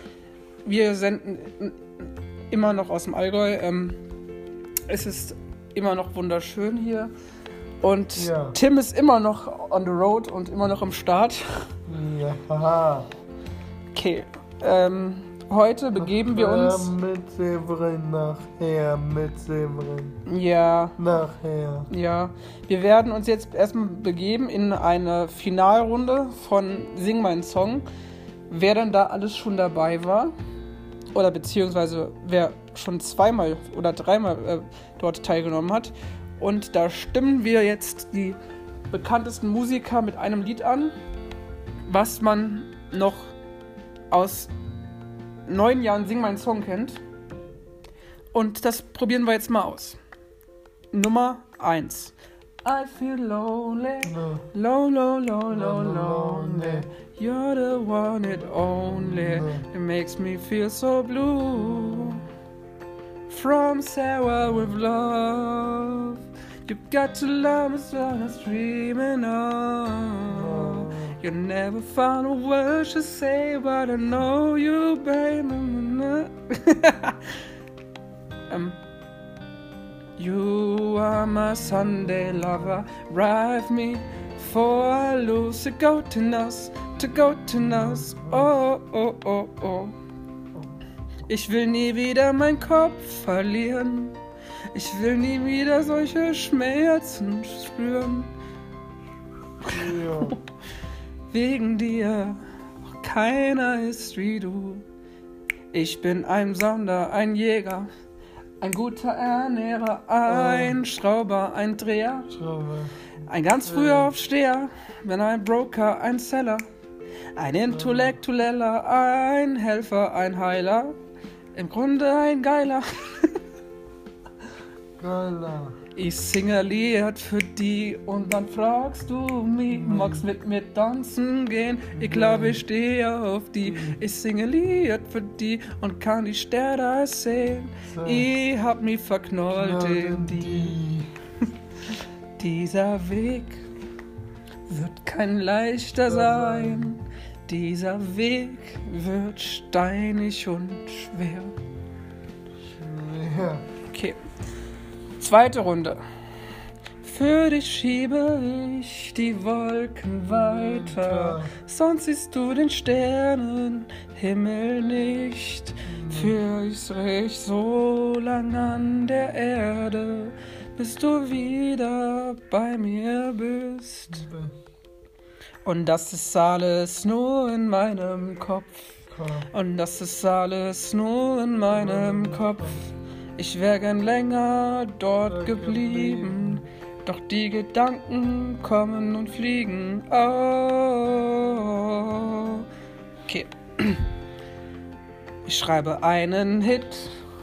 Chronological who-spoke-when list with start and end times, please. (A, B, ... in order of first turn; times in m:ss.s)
0:00.6-0:04.0 A
0:04.9-0:07.1 A
0:07.8-0:11.6 A
0:08.2-0:08.6 B
0:11.9-0:13.1 B
0:13.9-0:16.9 A
0:16.0-0:20.2 B
0:20.2-0:21.0 A
0:21.0-0:21.9 B
0:21.9-0:27.8 A
0:28.5-0:30.3 A
0:31.1-0:38.4 A
0:38.9-0:40.9 A
0:41.9-0:43.3 A
0:44.1-0:44.5 A
0:45.5-0:47.0 A
0:48.3-0:50.0 A
0:50.9-1:02.2 A
0:54.0-0:54.4 B
0:55.5-0:56.9 B
0:58.4-0:59.6 B
1:01.5-1:02.2 B
1:03.3-1:17.3 A
1:04.4-1:04.7 B
1:10.3-1:11.2 B
1:18.5-1:18.8 A
1:20.2-1:30.0 A
1:21.6-1:22.8 B
1:27.6-1:28.5 B
1:31.3-1:34.2 A
1:34.7-1:38.3 A
1:39.6-1:40.4 A
1:39.6-1:40.4 B
1:41.3-1:44.8 A
1:45.7-1:47.9 A
1:48.6-1:52.3 A
1:50.2-1:50.8 B
1:52.3-1:52.9 B
1:53.3-1:56.6 A
1:53.6-1:54.1 B
1:57.4-2:00.9 A
1:57.7-1:58.2 B
2:01.5-2:03.4 A
2:05.0-2:05.8 B
2:05.9-2:20.8 A
2:09.7-2:10.2 B
2:11.9-2:12.6 B
2:13.6-2:14.0 B
2:17.9-2:18.3 B
2:19.5-2:21.1 B
2:21.9-2:23.6 A
2:24.7-2:31.6 A
2:26.1-2:26.9 B
2:32.6-2:33.6 B
2:33.9-2:34.2 A
2:35.2-2:36.0 A
2:37.0-2:54.3 A
2:40.3-2:41.5 B
2:45.8-2:46.4 B
2:54.1-2:54.5 B
2:55.6-3:02.8 A
2:59.1-2:59.5 B
3:01.7-3:02.8 B
3:03.4-3:12.6 A
3:05.3-3:06.6 B
3:13.3-3:14.0 A
3:15.4-3:17.2 A